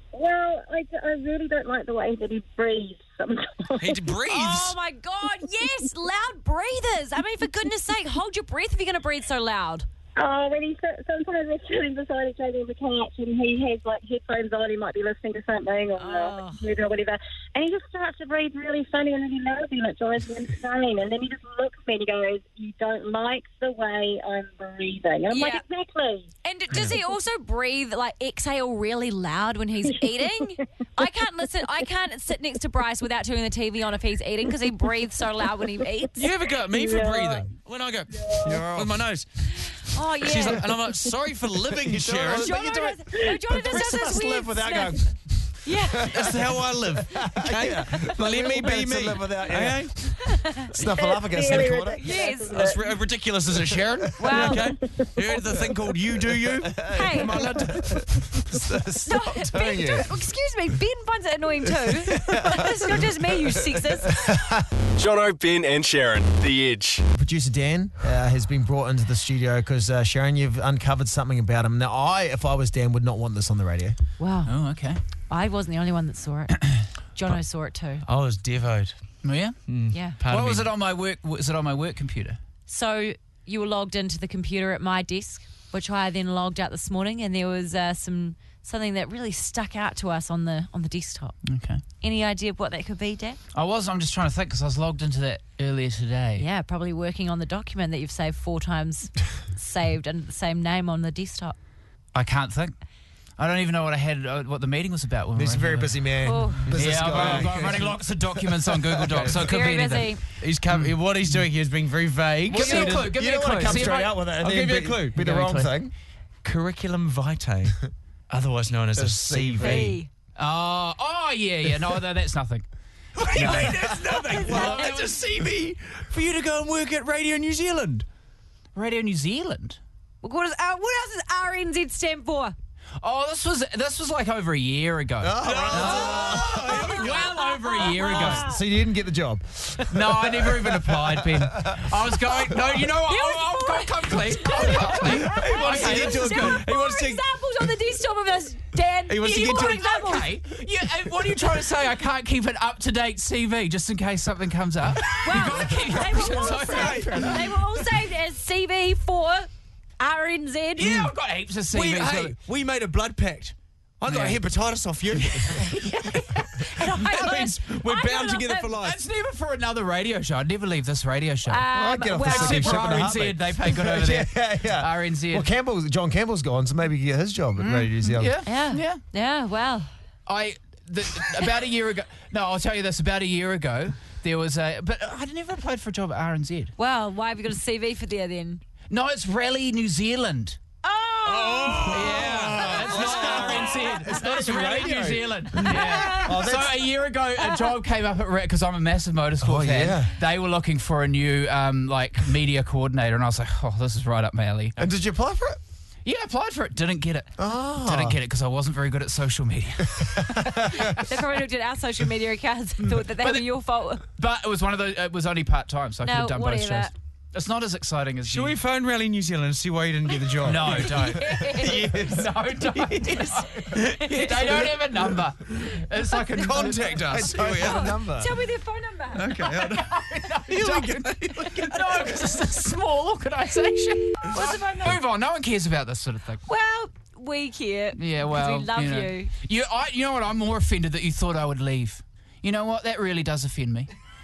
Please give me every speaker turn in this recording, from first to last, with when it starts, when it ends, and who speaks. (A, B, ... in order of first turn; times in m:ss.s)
0:00.1-0:04.1 A
0:03.8-0:04.8 B
0:04.3-0:09.9 C
0:10.2-0:26.3 A
0:16.0-0:16.7 C
0:25.3-0:25.6 C
0:26.4-0:36.3 C
0:36.2-0:39.3 B
0:36.7-0:37.5 A
0:38.2-0:38.6 A
0:38.5-0:38.9 D
0:39.7-0:40.7 C
0:40.2-0:42.6 B
0:41.7-0:49.9 D
0:42.4-0:45.0 C
0:45.6-0:46.2 C
0:46.0-0:50.3 B
0:50.3-0:50.7 C
0:50.7-0:52.2 D
0:50.8-0:52.9 A
0:51.5-0:51.8 B
0:51.9-0:52.6 C
0:52.4-0:58.6 B
0:54.2-0:54.7 C
0:56.6-1:00.2 D
0:56.9-0:57.3 C
0:59.1-1:04.2 C
1:02.1-1:04.7 D
1:05.0-1:07.1 E
1:07.1-1:14.0 D
1:14.2-1:14.5 C
1:14.5-1:15.0 F
1:15.3-1:16.6 C
1:17.2-1:18.0 C
1:18.0-1:19.0 B
1:19.2-1:19.6 F
1:19.7-1:20.7 B
1:19.9-1:20.2 C
1:20.3-1:22.4 F
1:22.7-1:31.4 C
1:31.5-1:31.8 F
1:32.0-1:33.4 C
1:33.6-1:36.4 F
1:36.4-1:41.6 C
1:42.1-1:42.7 F
1:43.4-1:46.0 F
1:45.4-1:48.0 D
1:46.2-1:46.7 C
1:46.7-1:50.2 F
1:46.8-1:55.6 B
1:49.4-1:50.2 C
1:50.7-1:51.4 F
1:52.5-1:55.9 D
1:52.5-1:54.2 F
1:55.2-1:55.6 F
1:56.4-2:00.0 B
1:59.0-2:00.0 D
1:59.6-2:00.1 C
2:00.4-2:02.7 F
2:03.2-2:08.0 B
2:03.3-2:05.2 F
2:04.5-2:04.9 C
2:08.8-2:09.8 F
2:10.2-2:12.6 C
2:13.0-2:18.4 F
2:15.2-2:16.8 D
2:15.4-2:17.8 B
2:16.1-2:18.6 C
2:18.1-2:21.8 D
2:19.9-2:26.6 F
2:23.1-2:30.0 C
2:24.9-2:27.2 B
2:29.1-2:30.2 B
2:29.2-2:37.4 F
2:35.2-2:39.5 C
2:36.6-2:37.4 B
2:40.0-2:41.1 C
2:40.8-2:42.4 F
2:41.7-2:45.7 B
2:44.1-2:44.4 F
2:45.2-2:46.4 F
2:45.8-2:48.7 C
2:47.0-2:49.0 B
2:48.7-2:51.6 F
2:51.5-2:52.9 C
2:51.7-2:58.4 D
2:52.2-2:55.5 F
2:57.6-2:59.0 F
2:58.4-2:59.9 C
3:00.3-3:06.7 F
3:06.8-3:08.6 C
3:08.9-3:10.6 F
3:10.8-3:12.0 C
3:11.3-3:13.2 B
3:11.6-3:16.9 D
3:11.9-3:24.8 F
3:12.6-3:14.0 C
3:15.6-3:16.5 C
3:17.4-3:17.7 C
3:19.4-3:20.2 D
3:24.8-3:25.6 D
3:26.0-3:31.0 F
3:27.4-3:28.2 D
3:30.0-3:30.9 D
3:30.9-3:34.0 C
3:33.2-3:33.5 F
3:34.1-3:38.6 F
3:36.0-3:36.9 C
3:38.2-3:42.2 B
3:40.4-3:47.1 F
3:40.8-3:42.2 C
3:43.6-3:44.7 B
3:46.4-3:47.9 B
3:47.1-3:48.3 D
3:47.6-3:49.5 C
3:49.2-3:52.2 B
3:49.4-3:56.4 F
3:50.7-3:51.9 D
3:54.2-3:54.9 C
3:56.5-3:59.3 C
3:58.0-4:03.9 F